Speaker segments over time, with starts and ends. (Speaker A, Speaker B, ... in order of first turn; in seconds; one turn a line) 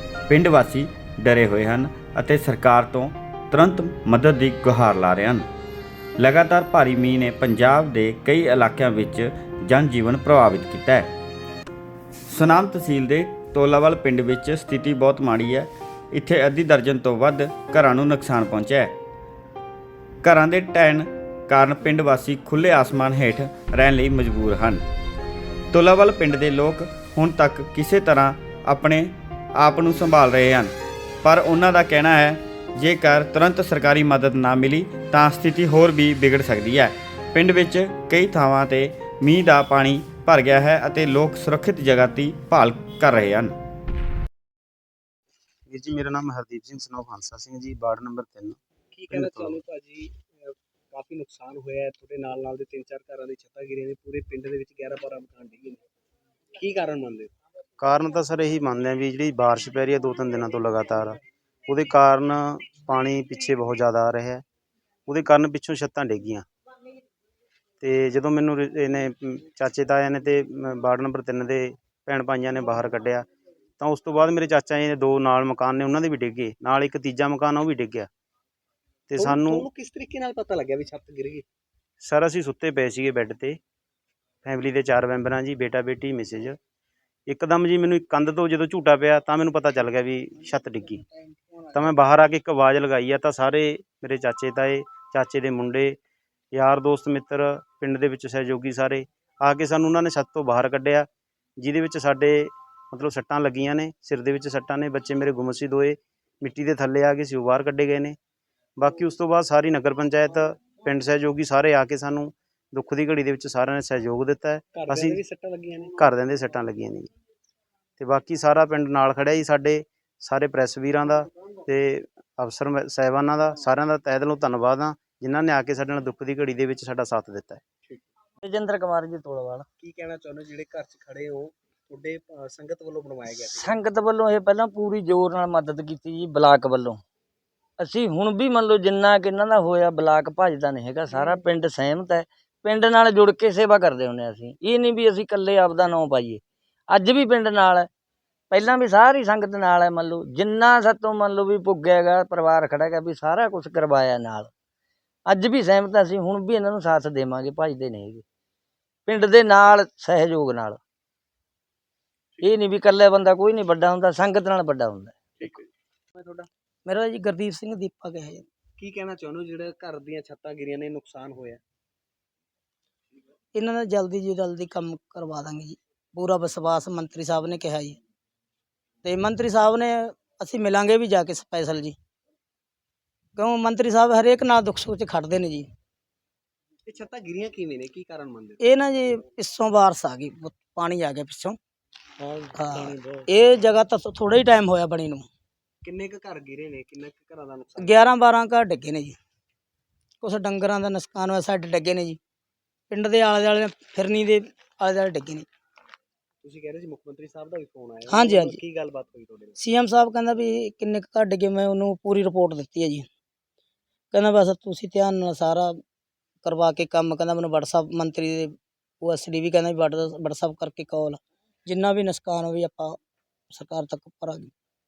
Speaker A: 0.3-5.5
Speaker A: 6.2-11.1
Speaker A: 12.3-18.9
Speaker A: 20.2-24.9
Speaker A: 25.7-43.6
Speaker B: 45.7-48.6
Speaker C: 48.9-55.8
Speaker B: 49.1-49.6
Speaker C: 56.5-57.3
Speaker B: 57.8-64.4
Speaker B: 65.1-66.5
Speaker B: 67.8-73.2
Speaker B: 73.8-78.1
Speaker B: 79.1-79.7
Speaker C: 79.2-81.5
Speaker B: 82.0-83.6
Speaker B: 84.4-86.6
Speaker B: 87.3-91.0
Speaker B: 91.7-96.0
Speaker B: 96.5-101.1
Speaker B: 101.6-108.2
Speaker B: 108.8-115.2
Speaker C: 114.7-116.0
Speaker B: 116.0-117.1
Speaker B: 118.0-127.6
Speaker D: 128.4-129.7
Speaker C: 129.8-133.8
Speaker D: 133.3-137.0
Speaker D: 137.8-147.9
Speaker D: 148.5-154.5
Speaker D: 155.3-158.2
Speaker D: 159.1-160.8
Speaker D: 162.4-165.5
Speaker C: 165.4-166.5
Speaker E: 166.8-168.4
Speaker C: 168.8-171.6
Speaker E: 173.5-178.0
Speaker E: 179.0-182.0
Speaker E: 183.4-185.7
Speaker C: 186.9-188.6
Speaker E: 188.6-191.6
Speaker C: 192.2-193.2
Speaker E: 192.6-195.3
Speaker C: 195.8-197.9
Speaker E: 197.8-199.2
Speaker E: 200.2-202.2
Speaker E: 202.9-205.5
Speaker C: 206.4-209.6
Speaker E: 208.1-208.6
Speaker E: 209.6-213.1
Speaker E: 214.1-215.8
Speaker E: 216.4-223.0
Speaker E: 223.5-224.5